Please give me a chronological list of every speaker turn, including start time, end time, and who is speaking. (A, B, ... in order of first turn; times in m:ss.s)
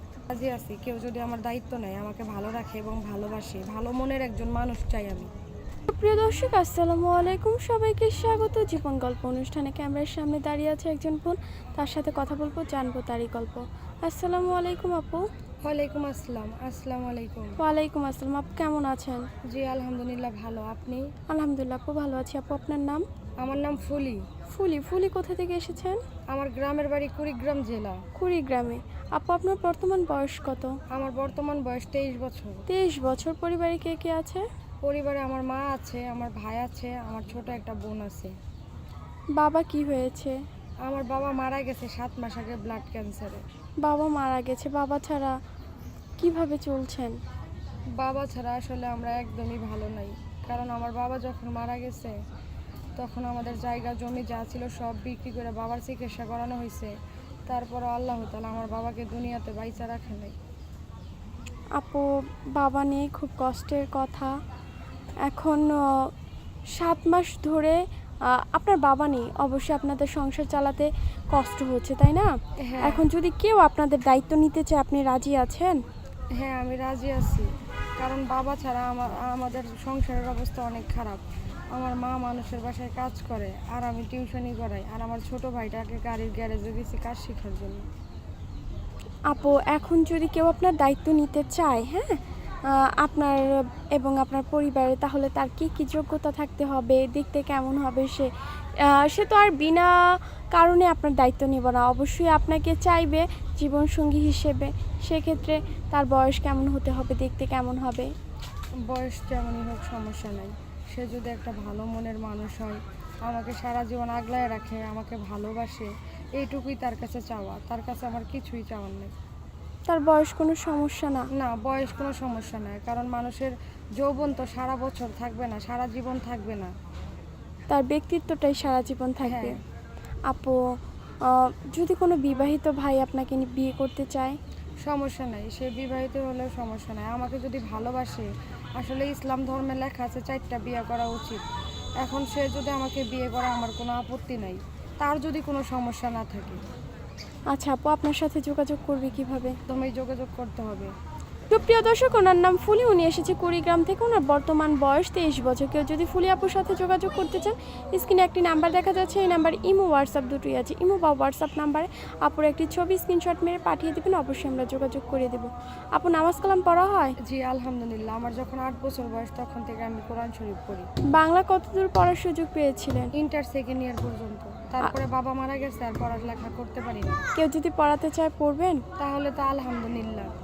0:00.3-0:05.3 A
0:05.9-0:15.3 B
0:15.6-0:17.6 A
0:17.6-0:19.2 B
0:19.5-0:21.1 A
0:21.3-0:23.0 B
0:23.4-0:24.2 A
0:24.5-0:26.0 B
0:26.3-0:28.0 A
0:28.2-0:30.8 B
0:30.9-0:32.6 A
0:32.7-0:34.4 B
0:34.8-0:38.3 A
0:39.4-0:40.4 B
0:40.8-0:43.4 A
0:43.8-0:45.4 B
0:46.2-0:47.2 B
0:48.0-0:52.2 A
0:53.0-0:56.9 A
0:57.5-1:00.4 A
1:01.8-1:04.3 B
1:05.2-1:06.1 B
1:06.8-1:15.8 B
1:12.6-1:13.0 A
1:16.4-1:21.2 A
1:21.7-1:27.9 A
1:29.3-1:38.3 B
1:38.8-1:39.9 B
1:40.5-1:48.1 B
1:48.9-1:59.1 A
1:59.9-2:01.3 B
2:01.3-2:06.7 A
2:07.7-2:09.6 B
2:09.2-2:09.6 A
2:10.3-2:10.6 B
2:11.2-2:14.4 B
2:14.8-2:21.4 A
2:22.0-2:26.6 A
2:27.5-2:29.6 B
2:29.7-2:30.9 A
2:31.5-2:47.2 B
2:47.2-2:50.9 A
2:51.1-2:53.1 B
2:53.2-2:57.2 A
2:57.4-2:58.8 B
2:59.0-3:00.3 A